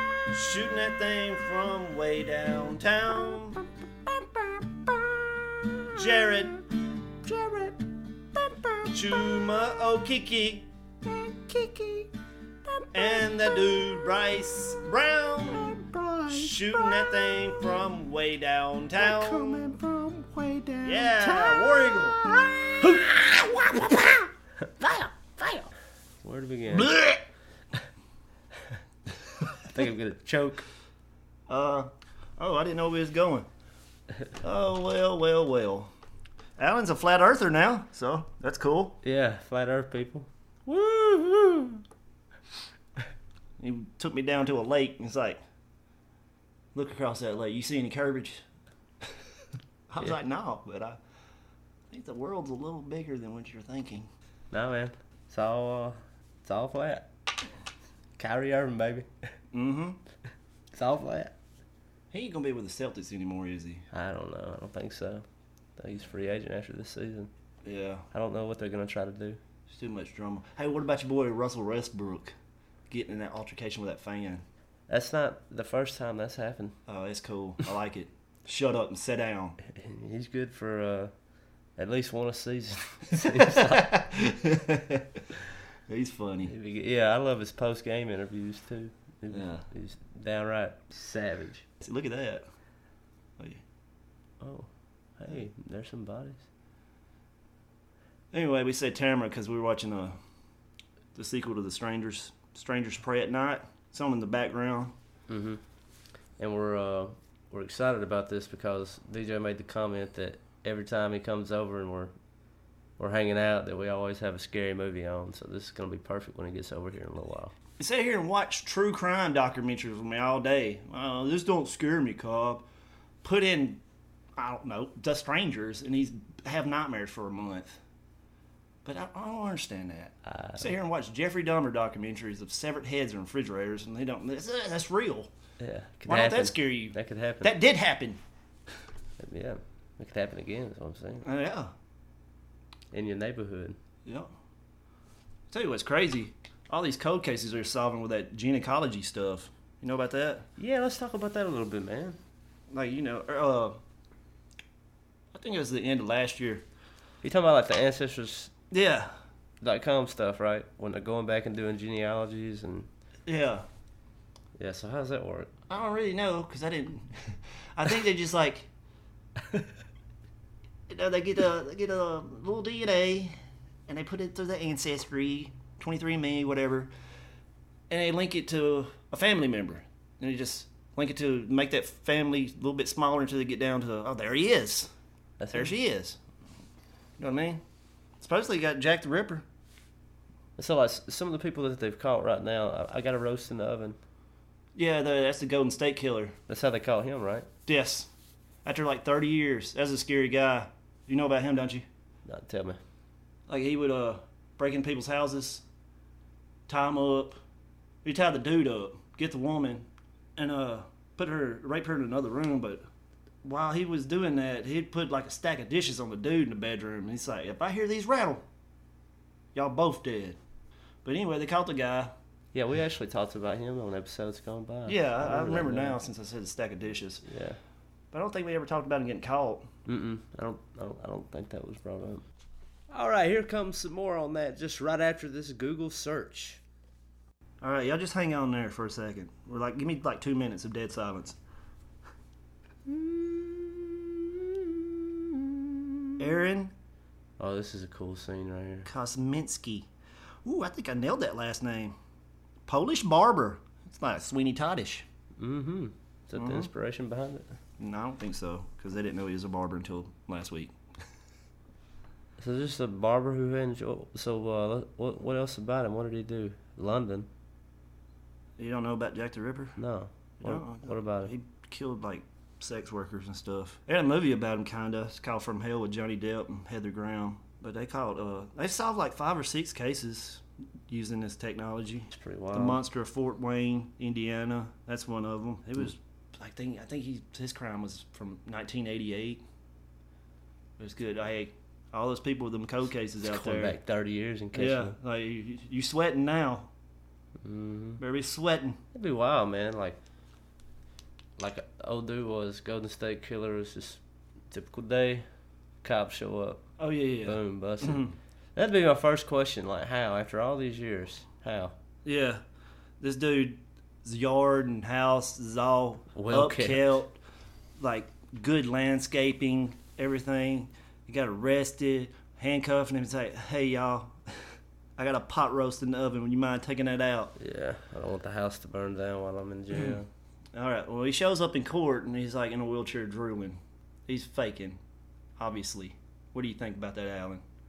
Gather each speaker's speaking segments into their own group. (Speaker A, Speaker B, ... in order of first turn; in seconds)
Speaker A: 0.3-3.6, 5.9-6.6, 8.9-10.7, 12.9-19.8, 20.8-22.2, 26.7-27.2, 31.5-33.5, 34.4-35.9, 36.6-39.0, 43.6-45.4, 46.7-48.4, 49.9-51.0, 51.9-54.1, 59.5-60.0, 62.1-63.8, 67.6-68.0, 69.7-72.3, 72.9-74.4, 76.9-79.6, 83.3-85.2, 85.9-86.5, 89.3-89.7, 91.8-92.4, 98.3-100.2, 101.1-104.9, 117.8-122.7, 123.2-123.8, 124.4-127.8, 128.8-135.3, 136.1-138.2, 141.2-141.7, 144.1-144.3, 145.5-150.4, 152.7-153.8, 155.3-156.7, 158.7-159.1, 163.2-163.7, 165.7-168.7, 170.9-173.3, 173.9-176.9, 177.9-184.9, 185.5-186.2, 187.2-187.6, 188.2-189.4, 194.7-196.4, 197.7-198.1, 198.6-201.8, 203.5-205.6, 206.7-207.4, 208.0-212.8, 213.4-218.4, 219.5-220.4, 221.0-222.1, 224.9-227.2, 228.1-229.7, 237.6-241.4, 246.2-246.7, 248.8-249.9, 250.4-251.9, 252.7-255.1, 256.3-256.7, 257.8-260.7, 268.6-269.8, 270.4-289.4, 290.8-293.8, 294.5-296.7, 298.0-298.8, 306.8-308.1, 312.0-312.4, 313.0-317.2, 317.8-324.2, 325.0-327.3, 329.7-330.0, 330.5-334.8, 335.4-337.4
Speaker B: 4.4-5.9, 7.3-7.8, 11.5-12.1, 15.7-16.4, 19.0-22.0, 22.8-24.2, 24.8-25.7, 26.2-27.0, 29.6-30.6, 39.0-41.8, 54.5-57.1, 58.2-59.1, 60.7-61.3, 63.9-65.2, 65.8-67.3, 68.1-69.4, 74.9-76.8, 79.7-81.1, 81.8-84.1, 86.5-91.6, 94.4-96.4, 105.3-105.6, 106.4-112.1, 113.0-117.5, 130.2-130.7, 135.6-137.5, 139.2-141.2, 142.9-143.8, 150.6-152.2, 157.2-158.5, 159.6-162.9, 164.6-165.5, 185.4-185.7, 190.6-194.0, 196.5-197.5, 202.2-202.8, 222.5-226.0, 227.2-227.6, 229.8-232.2, 232.9-236.6, 242.9-245.9, 247.4-248.9, 255.4-257.5, 262.4-267.3, 269.8-271.3, 282.1-282.8, 293.2-294.9, 297.4-298.0, 298.9-300.0, 301.4-304.0, 304.5-305.2, 305.8-306.6, 307.2-311.7, 316.1-317.0, 327.4-330.1